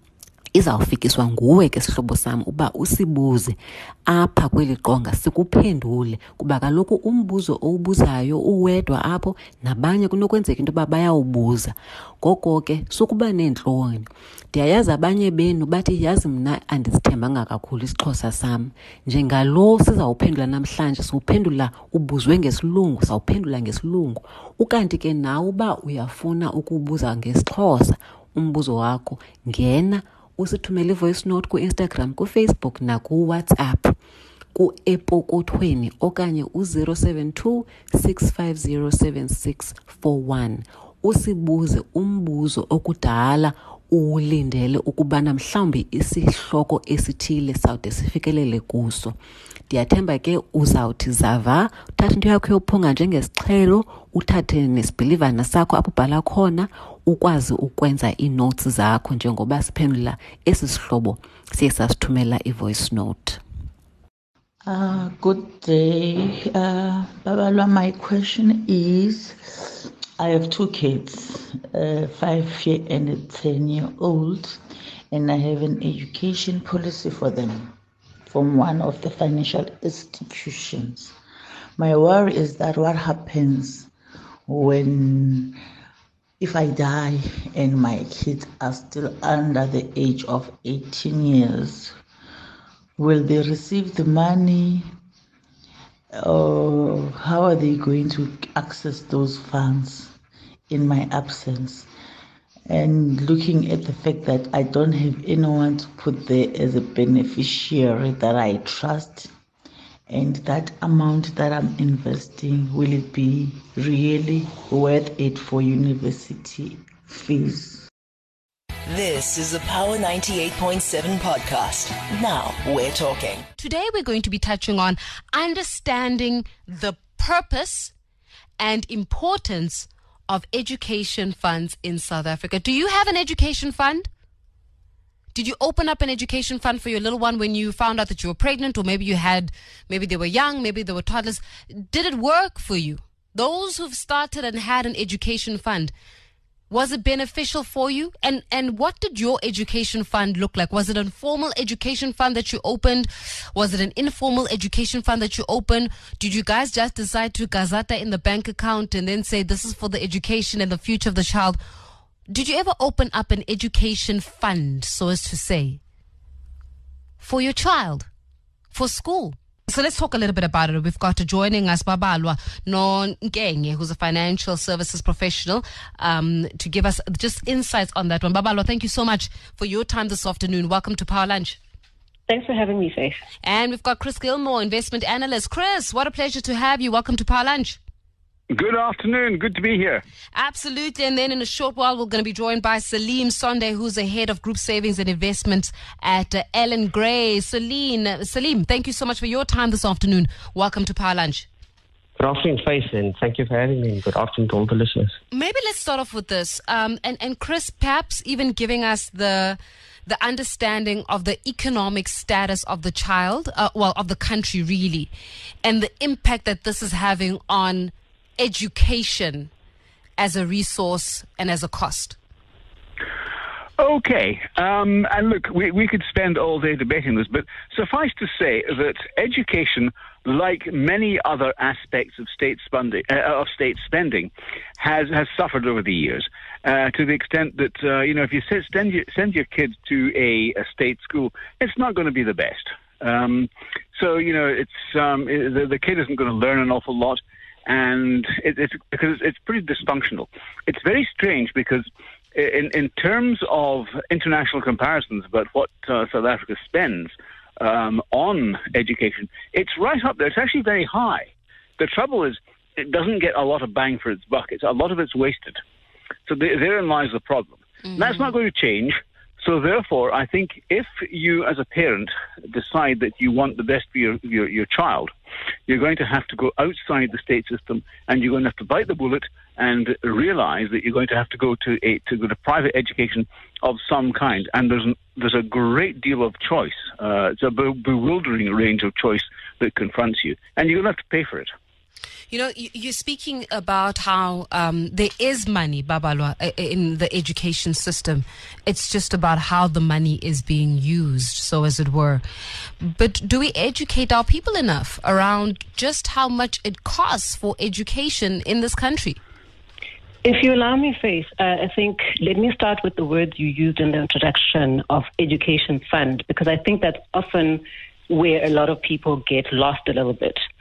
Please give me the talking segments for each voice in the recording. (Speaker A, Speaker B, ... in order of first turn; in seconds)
Speaker A: 0.5-34.0, 34.5-49.2, 49.7-63.4
Speaker B: 64.6-77.7, 78.3-81.1, 81.8-83.9, 84.5-85.6, 86.4-92.0, 93.0-94.9, 96.1-100.2, 100.7-101.9, 102.7-109.3, 110.1-117.9
Speaker C: 118.9-123.5
Speaker D: 123.6-127.9, 128.6-134.1, 135.3-145.9, 146.7-161.6, 162.3-165.8, 167.2-168.1, 168.7-181.6, 183.4-187.8, 190.3-201.5, 205.3-215.1, 215.6-219.5, 220.2-222.2, 292.3-302.2, 302.8-309.2
Speaker E: 182.3-183.2, 310.2-320.4
Speaker F: 188.5-190.0, 223.8-265.6, 266.2-275.1, 275.7-291.5
Speaker G: 202.2-205.2